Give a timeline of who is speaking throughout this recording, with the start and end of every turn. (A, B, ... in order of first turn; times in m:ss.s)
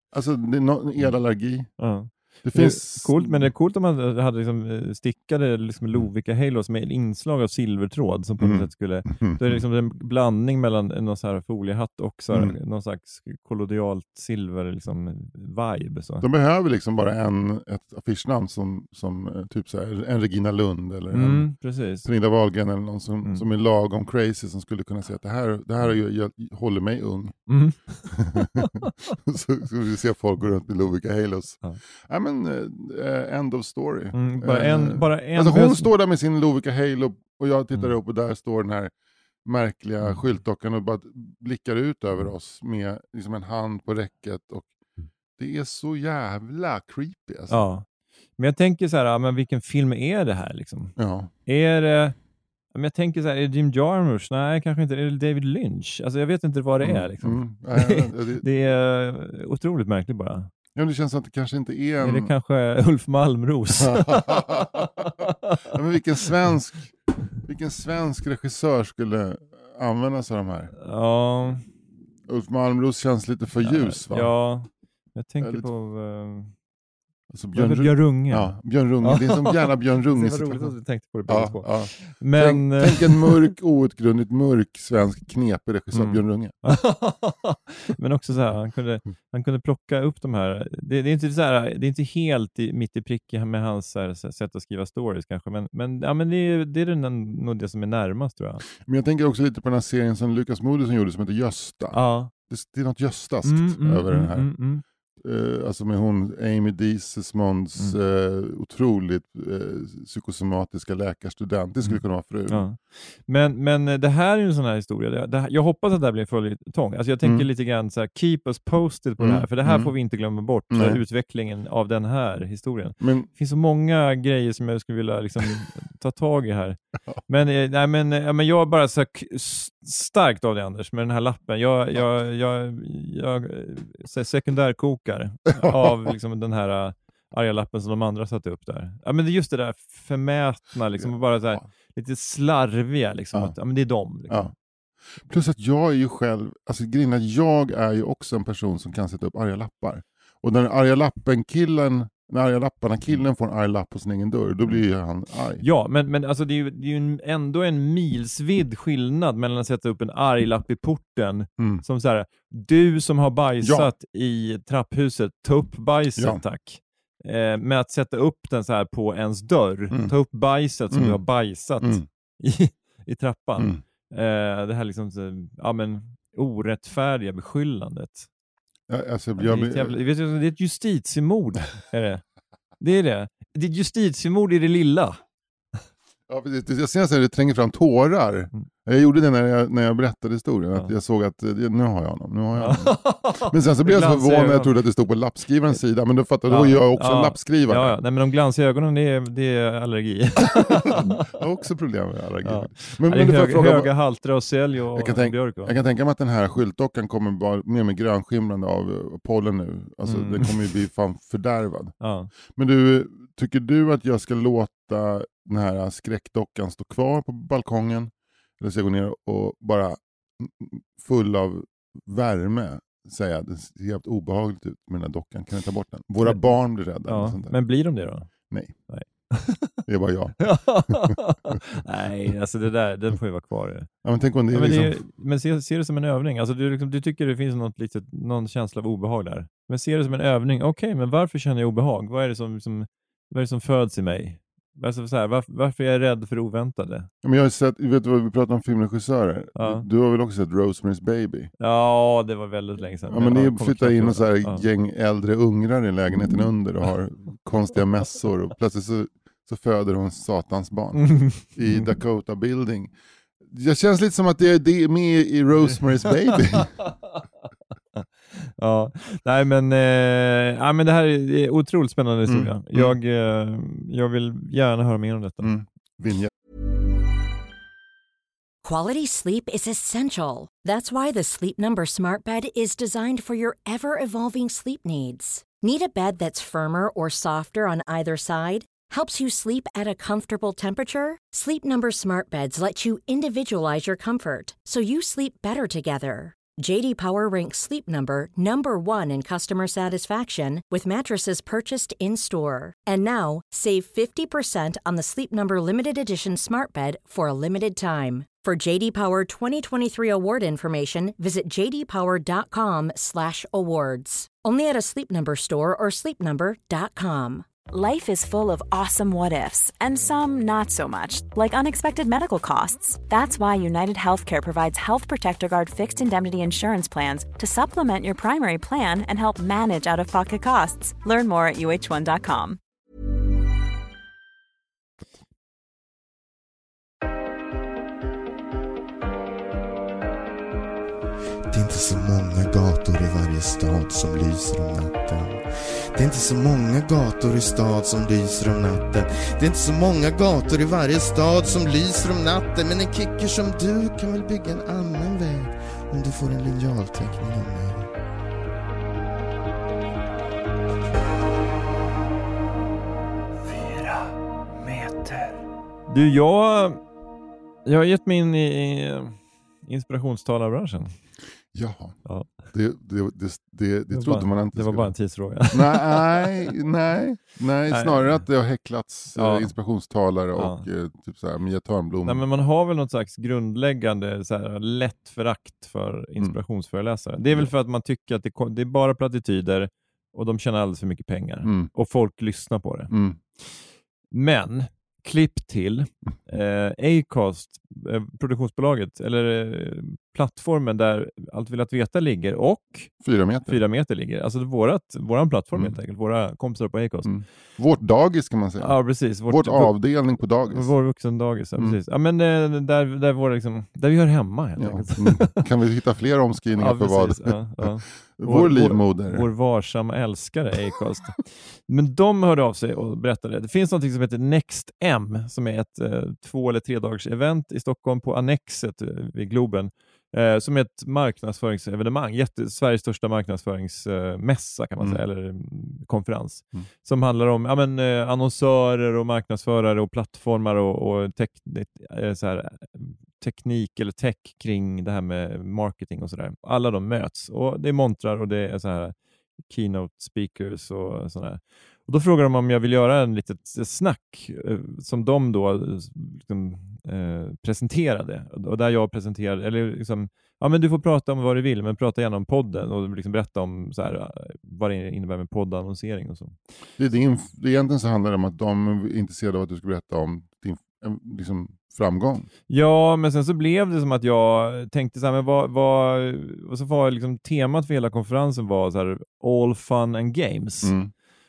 0:00.1-0:01.7 A
0:01.8-0:16.3 B
0:02.4-0:03.5 A
0:08.4-0:09.6 A
0:12.3-0:12.6 A
0:16.2-0:21.5 A
0:21.1-0:22.1 B
0:22.0-0:27.4 A
0:27.5-0:28.9 B
0:28.1-0:38.9 A
0:34.1-0:35.9 B
0:39.4-0:44.7 A
0:45.4-0:47.6 A
0:47.5-0:47.8 B
0:48.4-0:50.9 B
0:51.0-0:51.3 A
0:51.5-0:52.2 B
0:52.7-1:00.5 B
0:56.8-0:58.4 A
1:00.8-1:02.3 A
1:02.0-1:05.6 B
1:03.8-1:05.0 A
1:05.7-1:06.9 A
1:07.4-1:10.7 A
1:10.8-1:11.7 B
1:12.3-1:14.3 A
1:13.6-1:16.5 B
1:17.3-1:20.8 A
1:17.6-1:23.5 B
1:21.3-1:26.6 A
1:25.9-1:38.6 B
1:38.8-1:44.5 A
1:41.9-1:42.3 B
1:43.4-1:44.8 B
1:45.2-1:52.6 A
1:51.8-2:24.5 B
1:59.2-1:59.9 A
2:00.7-2:01.0 A
2:03.0-2:03.3 A
2:21.0-2:21.6 A
2:25.2-2:35.6 A
2:35.6-2:58.3 B
2:41.6-2:41.8 A
2:43.6-2:43.9 A
2:46.2-2:46.4 A
2:50.9-2:51.2 A
2:58.9-3:00.0 A
2:59.4-3:02.2 B
3:02.8-3:05.2 B
3:06.3-3:18.0 A
3:12.6-3:14.7 B
3:16.5-3:21.2 B
3:20.5-3:23.9 A
3:22.4-3:25.8 B
3:24.9-3:32.0 A
3:30.0-3:30.7 B
3:32.0-3:32.3 B
3:32.5-3:47.6 A
3:47.1-3:48.3 B
3:48.5-3:48.8 A
3:48.9-3:49.8 B
3:49.9-3:51.2 A
3:50.4-3:53.9 B
3:54.0-3:55.0 A
3:54.5-4:07.1 B
4:07.2-4:11.5 A
4:09.6-4:09.8 B
4:11.6-4:14.6 B
4:13.1-4:22.9 A
4:21.0-4:21.9 B
4:23.4-4:26.8 A
4:26.5-4:27.2 B
4:28.0-4:35.5 B
4:32.3-4:32.9 A
4:35.4-4:36.3 A
4:38.6-5:17.5 C
5:17.7-5:32.6 D
5:41.5-5:57.9 E
6:03.5-6:06.8 B
6:07.7-6:10.9 B
6:11.5-6:12.0 A
6:12.1-6:12.3 B
6:12.5-6:14.9 A
6:13.9-6:16.4 B
6:15.5-6:22.2 A
6:17.7-6:18.2 B
6:19.2-6:19.5 B
6:20.4-6:20.7 B
6:22.0-6:33.6 B
6:31.4-6:31.7 A
6:32.9-6:33.2 A
6:34.1-6:47.1 B
6:43.0-6:43.6 A
6:47.0-6:50.7 A
6:48.6-6:49.8 B
6:50.5-6:55.4 B
6:54.6-6:59.3 A
6:56.6-7:28.9 B
7:29.5-7:46.4 B
7:46.8-7:52.3 A
7:52.5-8:00.8 B
8:00.6-8:00.9 A